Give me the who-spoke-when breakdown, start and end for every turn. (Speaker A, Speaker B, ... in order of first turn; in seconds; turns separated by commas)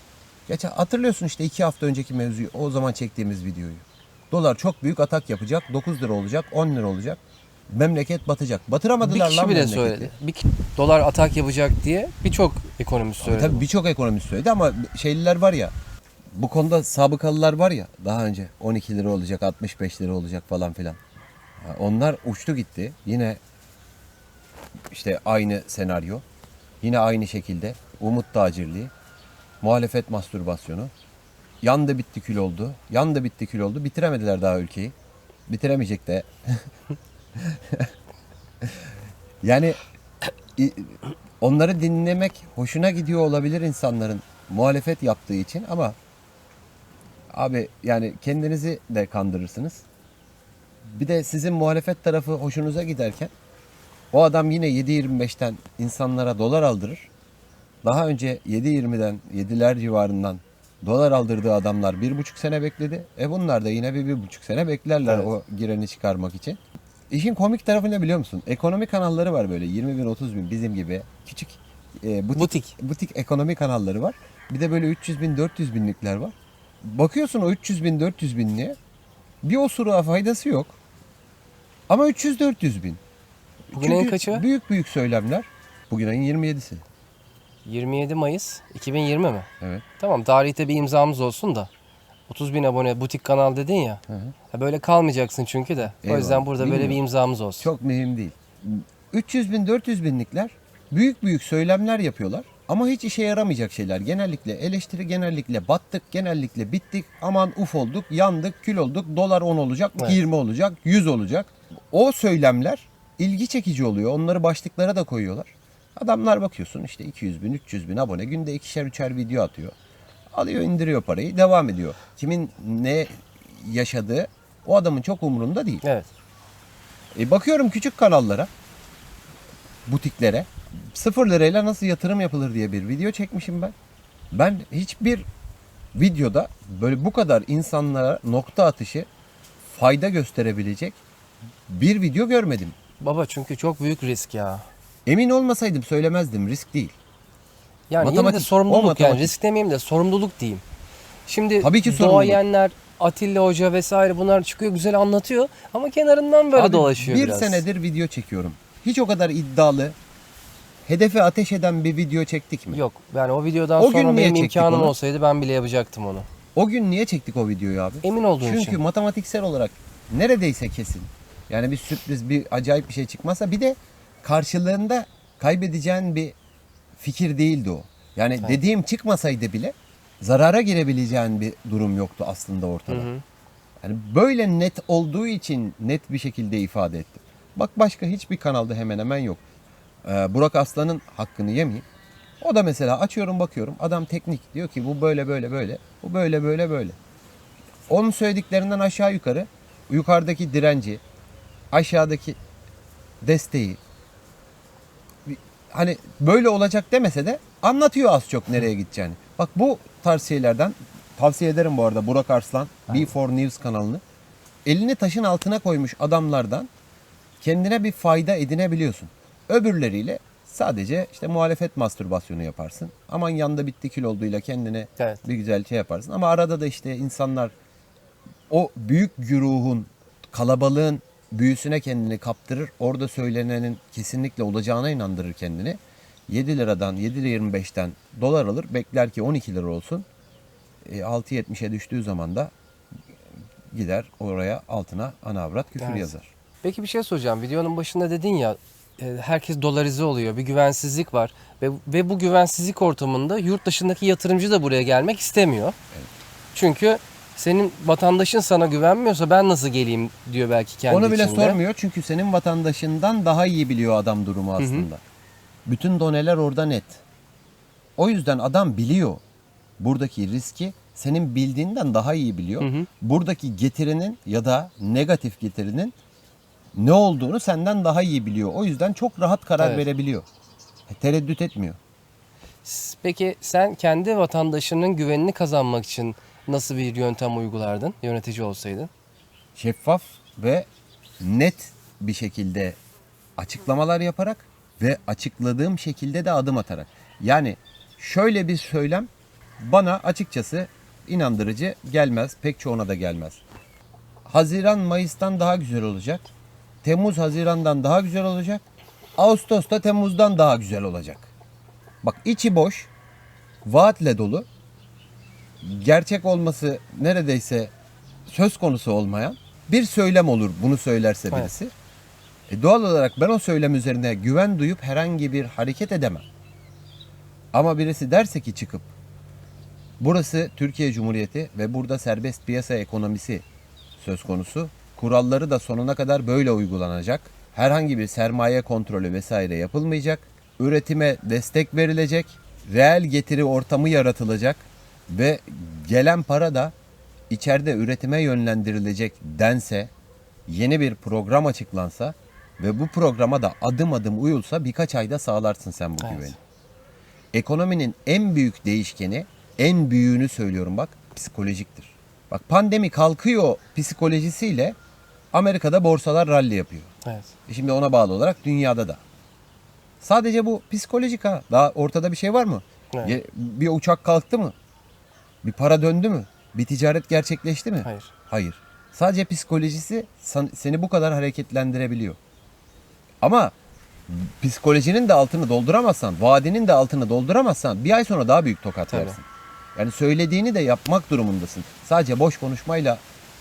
Speaker A: 0.5-10.1, Speaker B: 9.0-13.7, Speaker A: 13.2-15.7, Speaker A: 16.3-21.0, Speaker A: 21.6-23.4, Speaker A: 24.9-26.2, Speaker A: 26.8-28.9, Speaker A: 29.6-30.9, Speaker A: 31.6-35.0, Speaker A: 35.5-36.7, Speaker A: 37.4-37.9, Speaker A: 39.4-39.8, Speaker A: 40.6-46.0, Speaker A: 47.3-49.9, Speaker A: 50.8-53.3, Speaker A: 54.1-57.1, Speaker A: 57.8-78.8, Speaker B: 72.3-72.8, Speaker A: 79.4-80.8, Speaker A: 81.9-83.0, Speaker A: 83.7-86.8, Speaker B: 83.7-84.5, Speaker B: 87.7-91.7, Speaker B: 92.3-97.7, Speaker A: 94.1-94.3, Speaker A: 96.0-97.0, Speaker A: 97.6-119.8, Speaker A: 120.3-125.8, Speaker B: 125.8-126.1, Speaker A: 127.2-128.5, Speaker A: 129.9-133.7, Speaker A: 134.3-135.3, Speaker A: 135.9-139.1, Speaker A: 139.7-141.0, Speaker A: 141.7-142.8, Speaker B: 143.0-144.7, Speaker A: 145.1-146.9, Speaker B: 147.9-150.6, Speaker A: 148.0-149.3, Speaker B: 151.3-157.7, Speaker A: 151.6-152.4, Speaker A: 156.6-160.0, Speaker A: 160.8-162.8, Speaker B: 162.7-166.3, Speaker A: 163.8-164.9, Speaker A: 166.6-176.4, Speaker B: 168.0-168.8, Speaker A: 177.0-183.1, Speaker B: 182.9-183.2, Speaker A: 183.8-189.4, Speaker A: 190.0-191.9, Speaker A: 192.4-197.0, Speaker A: 197.9-201.0, Speaker A: 201.7-202.4, Speaker A: 203.2-203.8, Speaker A: 205.2-214.0, Speaker A: 214.7-216.7, Speaker A: 217.4-227.5, Speaker A: 228.5-240.1, Speaker A: 240.8-242.5, Speaker A: 243.7-246.3, Speaker B: 245.8-246.1, Speaker B: 246.6-255.8, Speaker B: 256.5-261.6, Speaker A: 260.9-265.0, Speaker B: 264.6-264.9, Speaker A: 265.6-267.0, Speaker A: 268.0-269.2, Speaker A: 269.8-275.9, Speaker B: 272.6-272.9, Speaker A: 276.8-280.3, Speaker B: 279.6-279.9, Speaker A: 280.9-281.8, Speaker B: 282.6-288.9, Speaker A: 289.6-290.7, Speaker A: 291.2-292.8, Speaker A: 293.4-303.4, Speaker A: 304.3-306.3, Speaker A: 306.8-308.6, Speaker A: 309.2-311.3, Speaker A: 312.0-312.9, Speaker A: 313.6-314.5, Speaker A: 315.6-317.7, Speaker A: 318.3-321.7, Speaker A: 322.5-326.3, Speaker A: 327.5-328.9, Speaker A: 330.0-333.4, Speaker A: 334.0-346.7, Speaker A: 347.3-349.9, Speaker A: 350.5-356.4, Speaker B: 356.0-356.4, Speaker A: 357.3-364.8, Speaker A: 365.3-366.9, Speaker B: 367.1-367.3, Speaker A: 367.5-369.0, Speaker A: 370.0-374.6, Speaker A: 375.4-382.2, Speaker B: 377.8-378.1, Speaker A: 383.2-383.5, Speaker A: 384.1-389.2, Speaker B: 388.9-389.2, Speaker A: 389.8-393.0